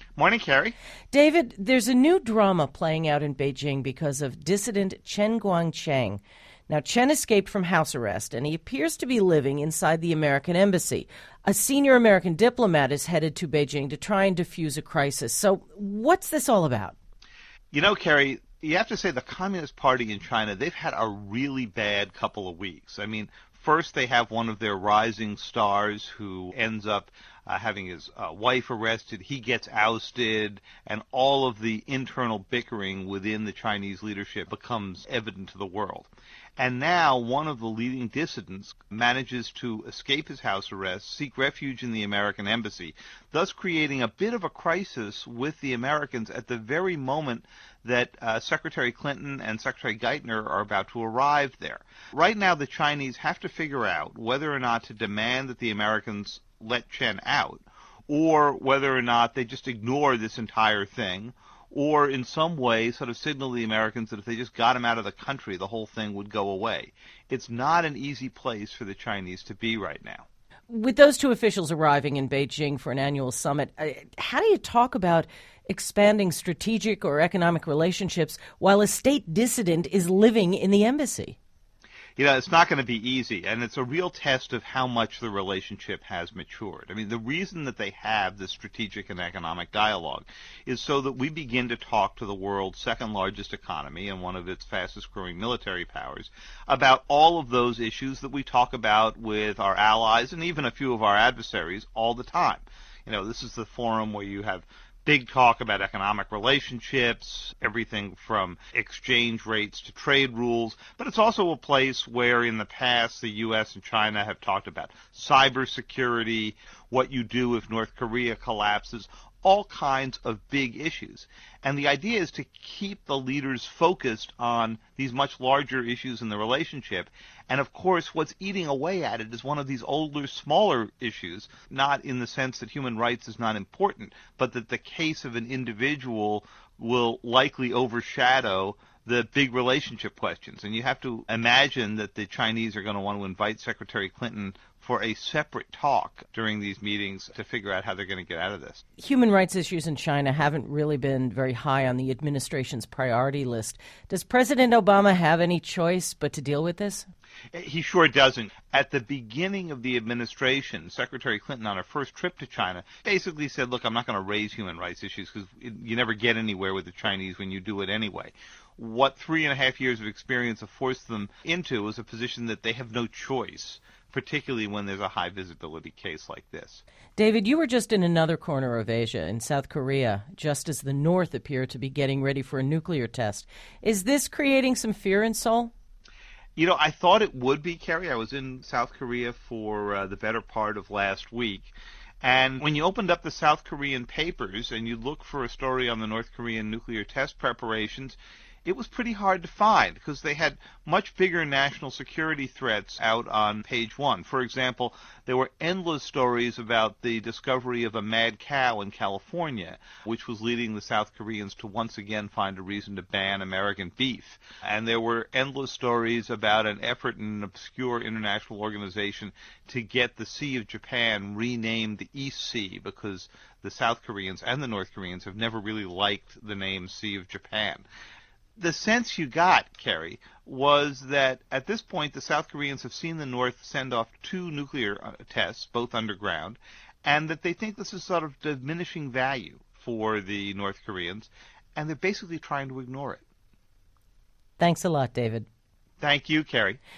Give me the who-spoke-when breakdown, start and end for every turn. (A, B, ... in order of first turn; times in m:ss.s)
0:00.2-0:00.7 A
0:01.1-0:16.9 B
0:17.7-1:10.2 A
1:10.7-1:21.4 B
1:22.2-2:28.8 A
2:29.0-2:37.1 B
2:37.5-2:56.8 A
2:57.2-3:05.7 B
3:06.6-3:47.8 A
3:48.6-4:03.2 A
4:04.6-4:05.4 B
4:06.0-4:06.8 A